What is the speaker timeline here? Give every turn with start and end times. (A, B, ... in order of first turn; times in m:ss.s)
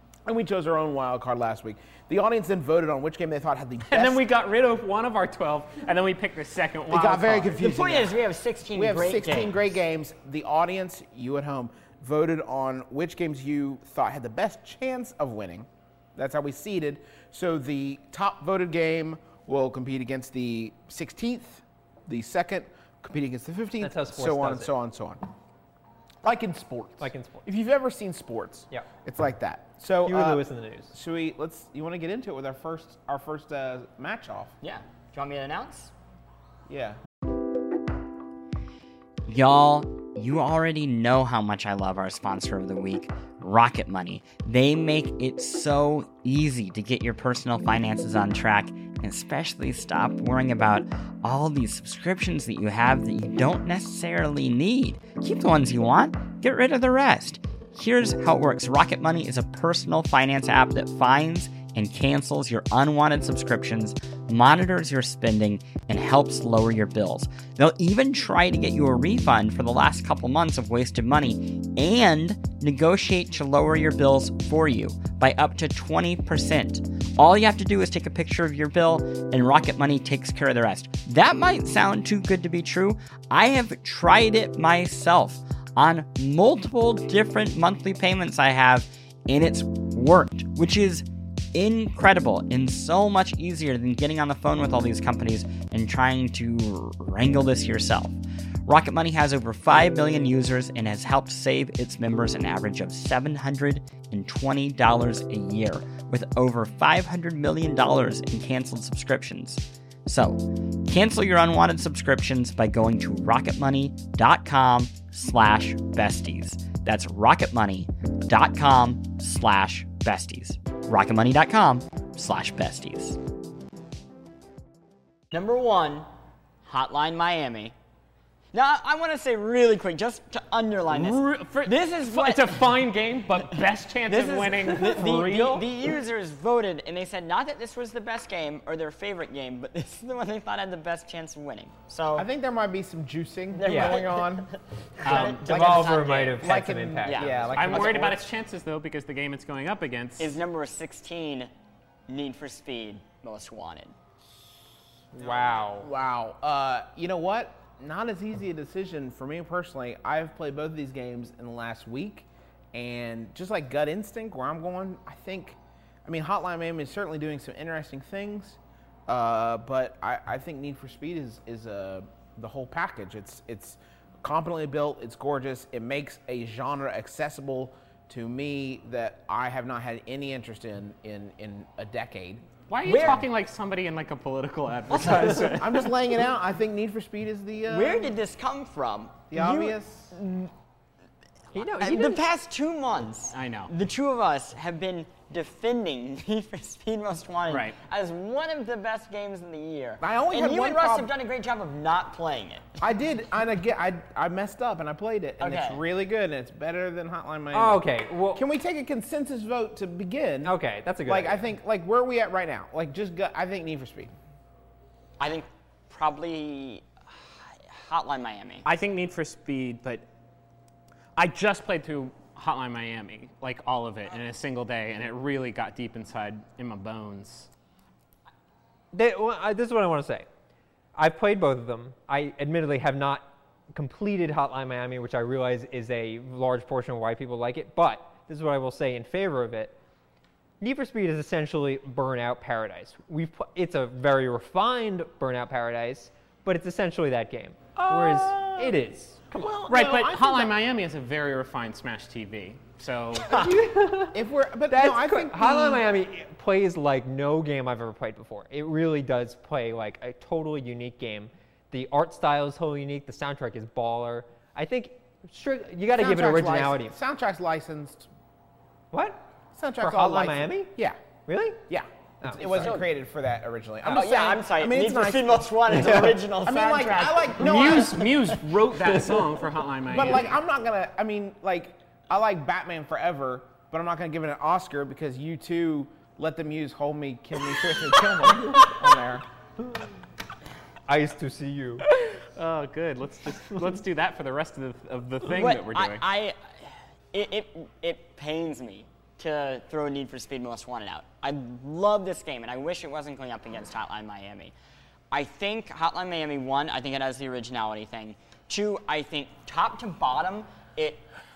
0:00.2-0:04.2 A
0:03.9-0:07.6 B
0:06.9-0:25.2 A
0:07.6-0:09.6 C
0:23.8-0:24.7 D
0:26.2-0:34.5 A
0:27.0-0:27.5 D
0:30.0-0:30.9 D
0:34.6-0:35.9 C
0:36.7-0:37.0 A
0:39.3-2:03.2 C
2:05.3-2:06.1 C
2:06.6-2:07.7 C
2:08.5-2:13.7 C
2:10.9-2:15.7 B
2:14.1-2:15.0 D
2:14.6-2:22.3 C
2:22.2-2:24.5 A
2:23.5-2:26.5 C
2:23.6-2:24.0 D
2:25.0-2:28.2 A
2:25.0-2:25.4 B
2:25.4-2:27.5 D
2:27.0-2:27.9 C
2:27.5-2:30.4 B
2:30.2-2:31.5 C
2:32.1-2:33.9 C
2:35.1-2:35.9 D
2:35.2-3:02.4 A
3:02.7-3:05.9 B
3:02.8-3:03.3 C
3:04.9-3:05.6 C
3:05.1-3:08.1 A
3:07.7-3:10.5 C
3:09.3-3:10.1 A
3:11.5-3:12.2 D
3:11.8-3:22.7 C
3:13.3-3:13.7 B
3:17.5-3:17.8 B
3:20.0-3:21.1 A
3:22.8-3:34.1 A
3:25.4-3:25.8 C
3:27.5-3:28.4 D
3:30.4-3:31.4 D
3:35.2-3:36.9 C
3:37.7-3:38.6 C
3:38.6-3:40.0 B
3:41.2-3:47.5 B
3:48.9-3:50.2 D
3:51.0-3:59.8 D
4:00.6-4:09.6 D
4:07.8-4:08.8 A
4:09.3-4:10.6 A
4:09.7-4:13.3 B
4:13.3-4:14.2 D
4:14.1-4:15.8 A
4:14.7-4:26.9 D
4:25.9-4:28.1 A
4:28.9-4:29.2 D
4:29.5-4:31.0 A
4:29.8-4:30.7 D
4:31.3-4:31.6 D
4:31.7-4:38.1 A
4:32.2-4:32.7 D
4:32.4-4:32.8 C
4:33.9-4:38.3 C
4:37.4-4:40.3 B
4:39.9-4:49.2 A
4:50.9-4:51.8 D
4:51.9-4:56.0 B
4:55.2-4:56.4 C
4:57.1-5:04.5 C
5:05.1-5:11.0 C